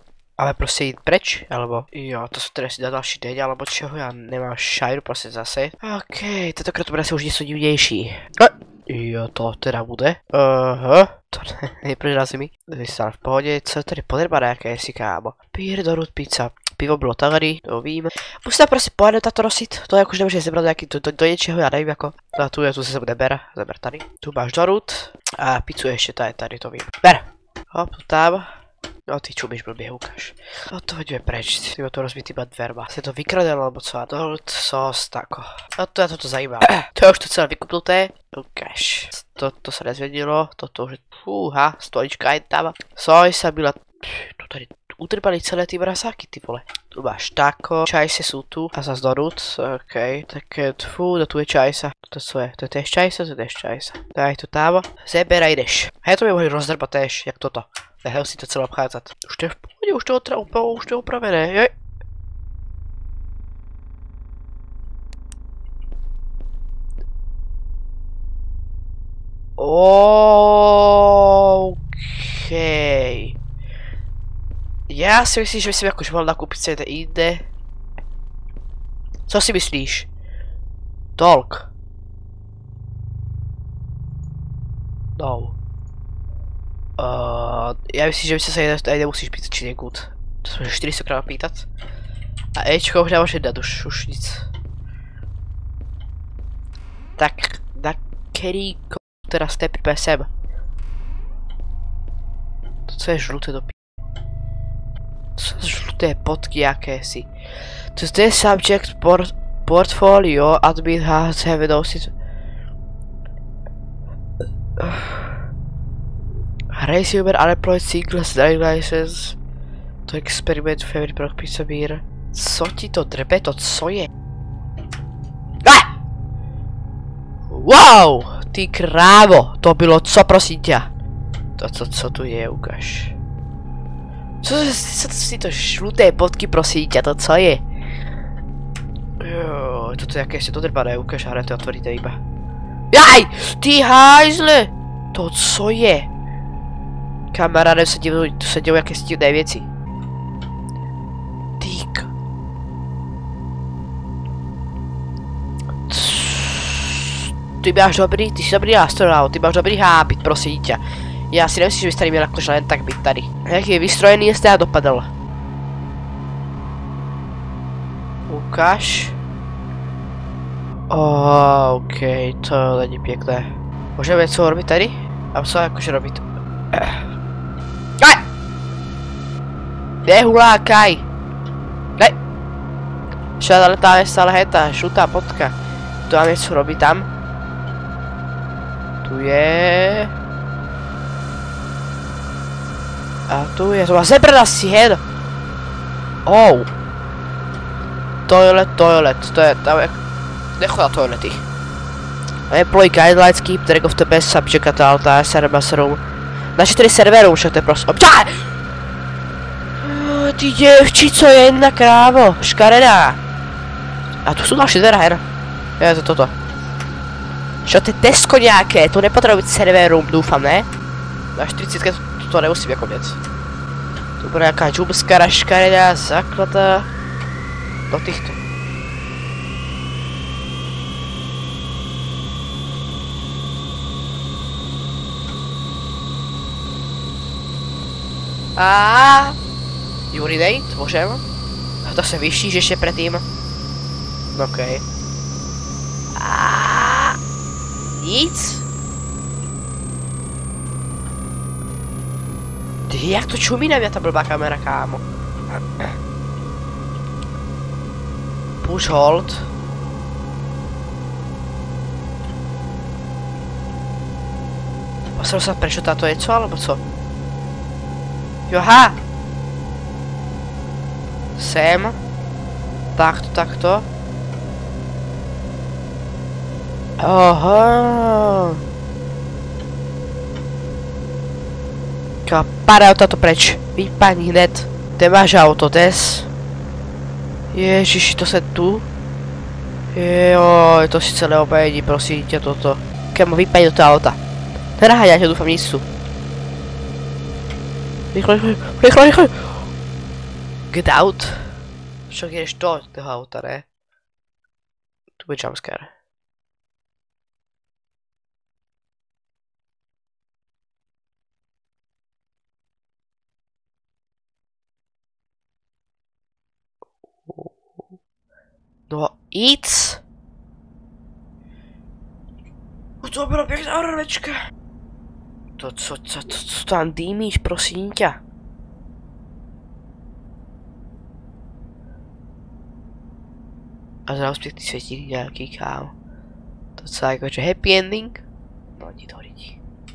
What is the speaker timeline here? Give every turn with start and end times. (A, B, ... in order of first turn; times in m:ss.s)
0:00.4-0:28.5 A
0:29.1-1:01.7 A
1:09.6-1:13.4 A
1:14.9-1:17.4 A
1:19.3-1:20.1 A
1:21.2-1:21.7 A
1:25.2-1:25.5 A
1:27.0-1:31.6 A
1:32.6-1:34.4 A
1:37.2-1:40.3 A
1:42.9-1:43.7 A
1:45.4-1:47.3 A
1:47.9-1:52.1 A
1:54.8-1:55.4 A
1:56.7-1:59.4 A
2:00.0-2:04.1 A
2:07.5-2:10.9 A
2:11.6-2:13.1 A
2:14.4-2:17.6 A
2:19.2-2:22.2 A
2:22.9-2:26.1 A
2:27.3-2:29.7 A
2:31.6-2:32.1 A
2:35.9-2:45.1 A
2:48.3-2:49.2 A
2:50.9-2:57.1 A
3:00.0-3:01.0 A
3:03.4-3:05.5 A
3:06.1-3:07.1 A
3:09.0-3:10.1 A
3:13.3-3:15.0 A
3:16.2-3:16.7 A
3:18.2-3:20.0 A
3:20.6-3:21.4 A
3:22.5-3:26.0 A
3:26.6-3:28.5 A
3:29.8-3:33.2 A
3:34.2-3:35.2 A
3:35.8-3:36.3 A
3:37.6-3:40.7 A
3:41.3-3:43.2 A
3:44.2-3:46.9 A
3:47.9-3:48.4 A
3:58.6-3:59.4 A
4:00.1-4:01.2 A
4:01.8-4:03.2 A
4:04.3-4:04.8 A
4:06.1-4:07.2 A
4:07.8-4:08.6 A
4:12.9-4:15.0 A
4:18.6-4:19.5 A
4:25.2-4:26.8 A
4:28.5-4:29.0 A
4:31.3-4:32.0 A
4:33.0-4:33.9 A
4:37.0-4:38.6 A
4:42.2-4:46.3 A
4:47.5-4:48.8 A
4:49.9-4:54.2 A
4:54.8-4:55.8 A
4:58.1-4:59.6 A
5:00.7-5:01.5 A
5:02.1-5:03.6 A
5:05.2-5:05.9 A
5:17.3-5:17.8 A
5:18.9-5:20.0 A
5:23.0-5:24.4 A
5:25.6-5:28.2 A
5:34.1-5:35.9 A
5:36.8-5:38.2 A
5:38.8-5:39.6 A